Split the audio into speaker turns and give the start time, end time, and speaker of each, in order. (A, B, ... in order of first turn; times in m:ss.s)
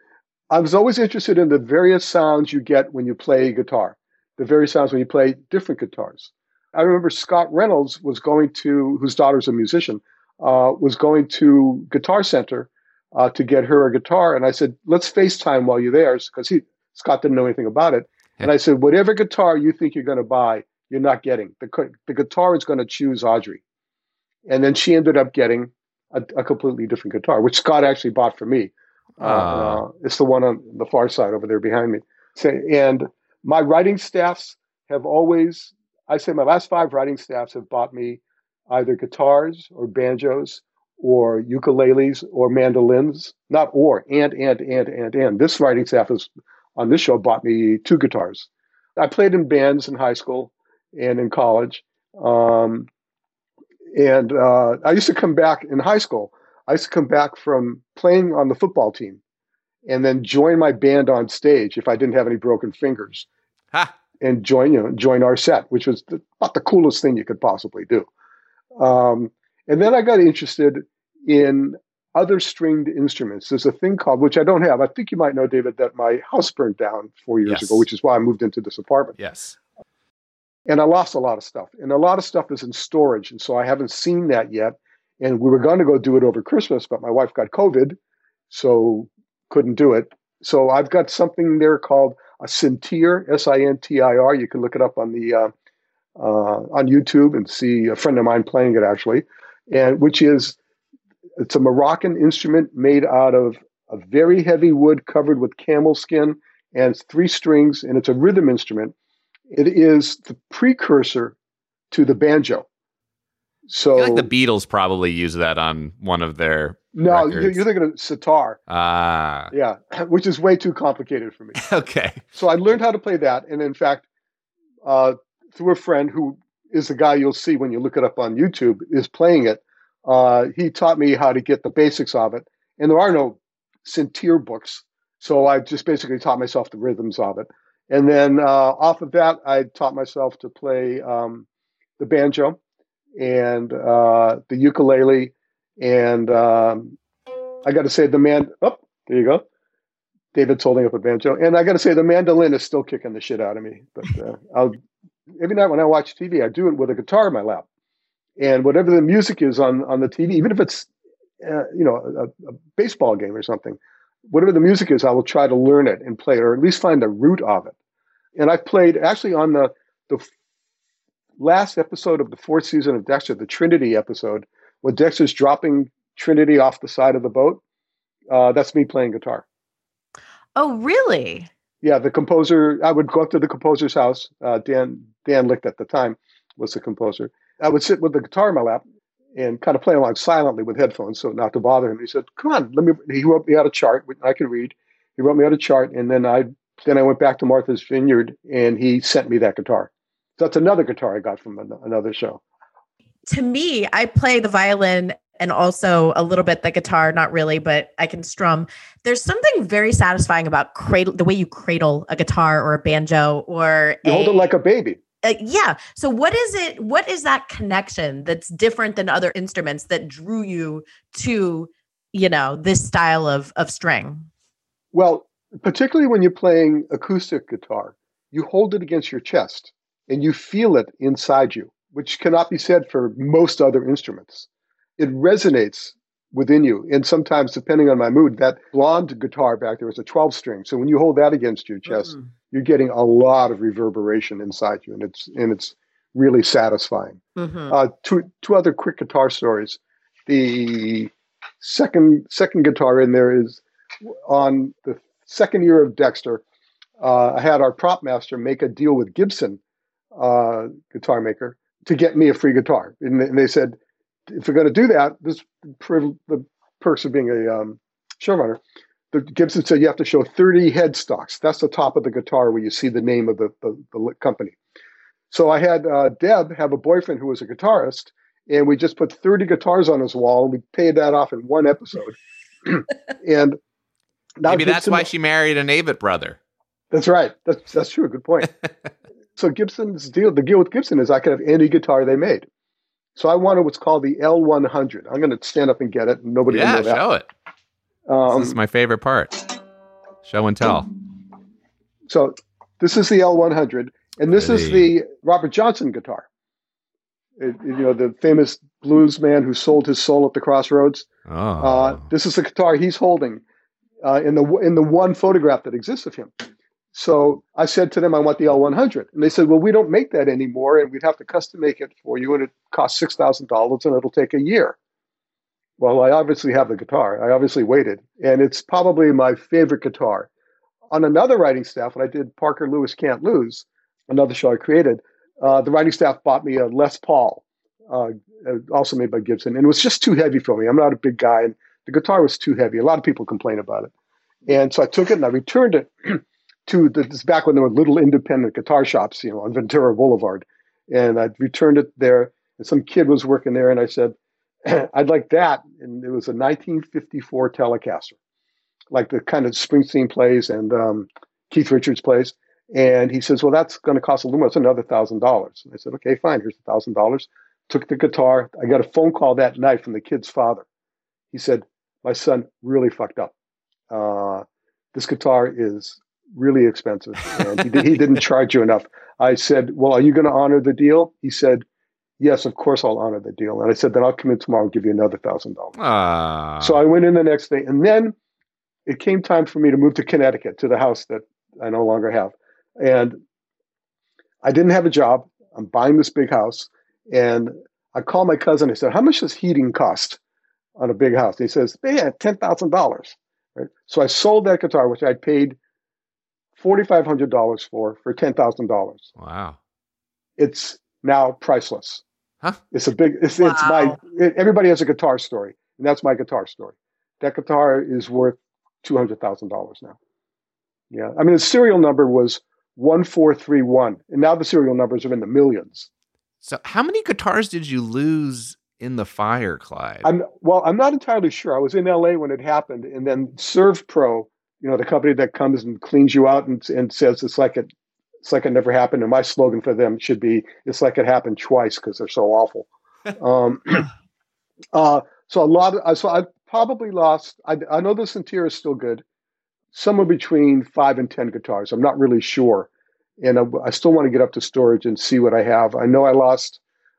0:00.5-0:23.6 A
0:24.5-0:52.9 A
0:29.2-0:29.8 B
0:53.9-0:59.2 A
0:59.8-1:03.3 A
1:04.2-1:08.1 A
1:08.8-1:19.2 A
1:17.4-1:17.8 B
1:19.2-1:19.6 B
1:20.7-1:28.0 A
1:28.5-1:35.5 A
1:36.2-1:40.6 A
1:41.4-1:48.9 A
1:49.5-1:51.3 A
1:51.9-1:52.6 A
1:53.7-1:54.3 A
1:53.9-1:57.6 B
1:56.9-1:58.6 A
1:58.7-1:59.5 B
1:59.5-2:01.6 A
2:01.6-2:02.2 B
2:02.3-2:04.0 A
2:04.8-2:21.4 A
2:22.0-2:22.6 A
2:23.2-2:27.0 A
2:27.6-2:29.4 A
2:30.3-2:34.8 A
2:35.4-2:37.6 A
2:38.4-2:40.9 A
2:41.4-2:43.8 A
2:44.3-2:47.7 A
2:48.4-2:50.3 A
2:51.4-2:57.6 A
2:58.3-2:59.4 A
3:00.6-3:01.5 C
3:01.8-3:08.8 A
3:09.4-3:22.4 A
3:23.3-3:34.5 C
3:34.0-3:35.0 A
3:35.2-3:44.3 C
3:44.9-3:54.5 A
3:55.0-4:13.6 A
4:01.9-4:02.2 C
4:07.4-4:07.7 C
4:14.3-4:16.4 A
4:17.0-4:19.6 A
4:20.2-4:23.8 A
4:24.3-4:28.6 A
4:29.1-4:34.6 A
4:35.3-4:43.6 A
4:44.4-4:45.1 A
4:44.4-4:46.4 B
4:46.9-4:48.5 A
4:49.4-4:52.4 A
4:53.2-4:57.0 A
4:56.5-4:57.3 B
4:58.1-4:58.6 A
4:58.3-4:59.4 B
5:00.2-5:00.9 B
5:02.1-5:06.2 A
5:04.3-5:04.9 B
5:07.4-5:11.1 A
5:11.3-5:12.0 B
5:11.6-5:13.4 A
5:14.0-5:16.3 A
5:16.9-5:24.8 A
5:25.8-5:30.3 A
5:30.9-5:43.9 A
5:44.5-5:54.1 A
5:54.6-5:58.2 A
5:58.9-6:10.6 A
6:11.3-6:13.3 A
6:13.9-6:21.6 A
6:22.2-6:25.8 A
6:25.8-6:26.8 B
6:26.6-6:28.1 A
6:28.9-6:33.2 A
6:34.4-6:40.2 A
6:40.8-6:45.6 A
6:46.6-6:49.1 A
6:49.2-6:49.6 B
6:50.4-6:52.0 A
6:52.7-7:00.0 A
6:53.4-6:54.0 C
7:00.9-7:05.9 A
7:06.4-7:10.0 B
7:10.0-7:17.7 A
7:18.2-7:23.9 A
7:24.7-7:29.0 A
7:29.7-7:32.7 A
7:33.2-7:36.6 A